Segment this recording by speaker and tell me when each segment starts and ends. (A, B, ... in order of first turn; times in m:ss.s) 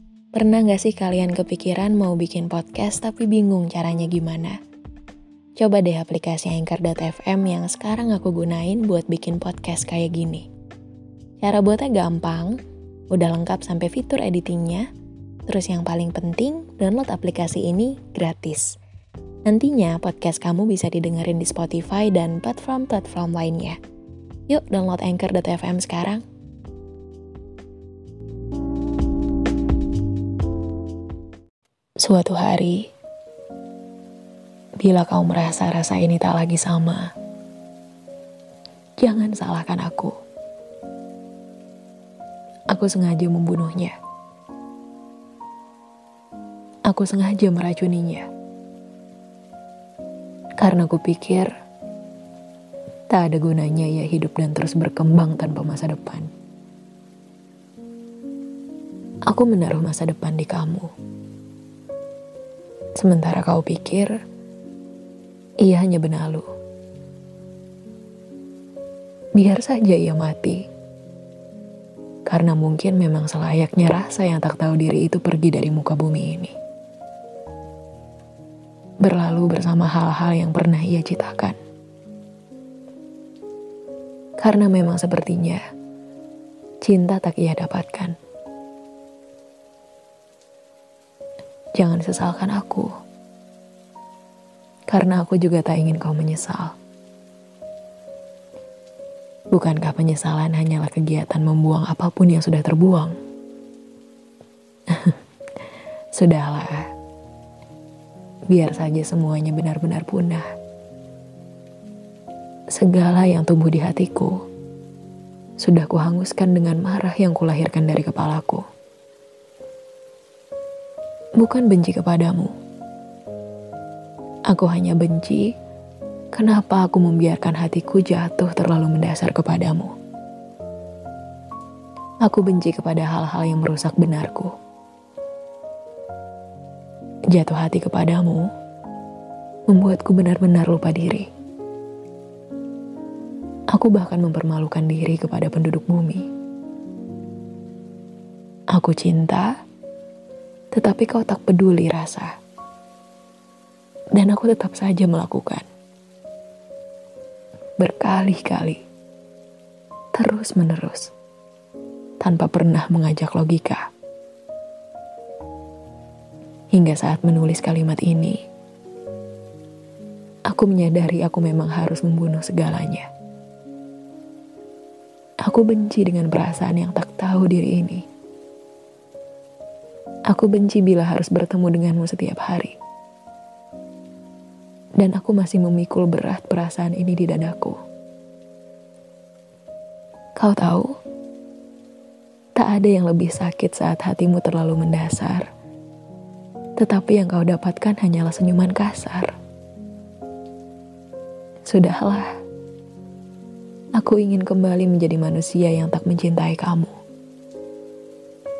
0:00.3-0:04.6 A
0:05.6-0:10.5 A
0:11.4-0:12.6 A
0:13.1-0:14.9 A
0:15.5-0:18.8 A
0:19.4-0:23.8 A
0:24.5-0:26.2 A
0:32.0-0:32.9 A
0:34.8-0:37.1 A
0:39.0-0:40.1 A
0:42.7-0:44.0 A
0:46.9-0:48.3 A
0:50.6-0:51.5 A
0:53.1-0:56.3 A
0:59.3-1:00.9 A
1:03.0-1:04.2 A
1:05.6-1:06.5 A
1:09.3-1:10.7 A
1:12.2-1:16.6 A
1:19.0-1:21.6 A
1:24.4-1:25.6 A
1:26.8-1:28.2 A
1:31.7-1:32.9 A
1:34.9-1:36.7 A
1:39.5-1:43.2 A
1:44.9-1:45.2 A
1:46.1-1:46.9 A
1:48.5-1:50.5 A
1:52.7-1:54.4 A
1:55.6-1:58.6 A
2:01.4-2:02.5 A
2:04.5-2:05.5 A
2:06.3-2:09.9 A
2:12.2-2:14.5 A
2:17.3-2:18.5 A
2:19.7-2:21.3 A
2:23.7-2:26.3 A
2:28.7-2:29.5 A
2:30.7-2:32.3 A
2:34.1-2:35.6 A
2:37.8-2:38.8 A
2:40.1-2:41.1 A
2:42.2-2:43.9 A
2:46.7-2:48.4 A
2:50.5-2:53.1 A
2:55.4-2:58.0 A
3:00.3-3:02.8 A
3:05.0-3:07.8 A
3:10.4-3:11.0 A
3:12.6-3:15.5 A
3:16.8-3:19.3 A
3:21.6-3:22.4 A
3:24.0-3:27.0 A